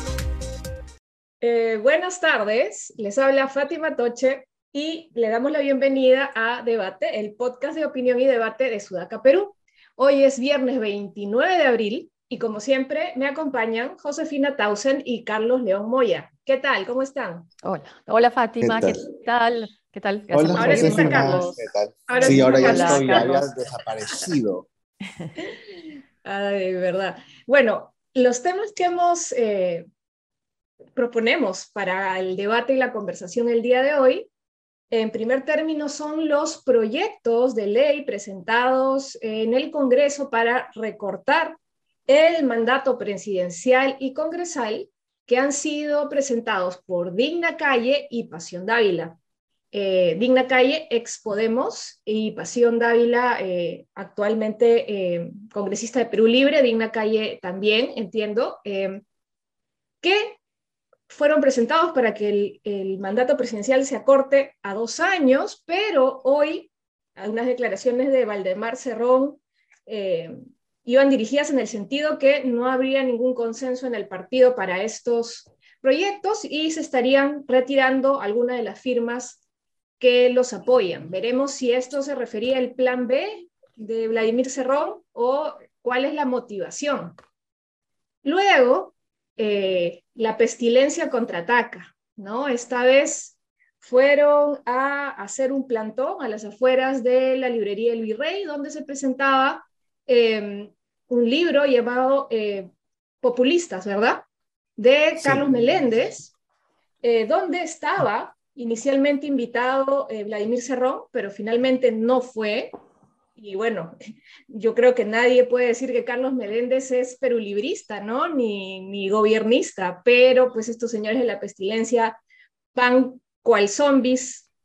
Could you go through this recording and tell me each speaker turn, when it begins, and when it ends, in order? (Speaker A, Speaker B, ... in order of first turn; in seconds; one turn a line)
Speaker A: 1.4-17.5
Speaker B: 17.6-21.6
Speaker C: 18.6-19.0
Speaker C: 20.3-24.7
Speaker A: 20.5-21.6
Speaker A: 22.1-23.3
Speaker B: 22.1-23.5
Speaker A: 26.2-29.9
Speaker A: 30.9-34.3
Speaker A: 34.9-49.2
Speaker A: 49.7-59.0
Speaker A: 60.0-60.4
Speaker A: 61.1-70.3
Speaker A: 70.8-79.4
Speaker A: 80.0-87.2
Speaker A: 88.2-102.7
Speaker A: 103.2-106.3
Speaker C: 105.2-105.4
Speaker A: 107.0-112.7
Speaker A: 113.3-113.9
Speaker A: 114.5-122.2
Speaker A: 122.7-124.5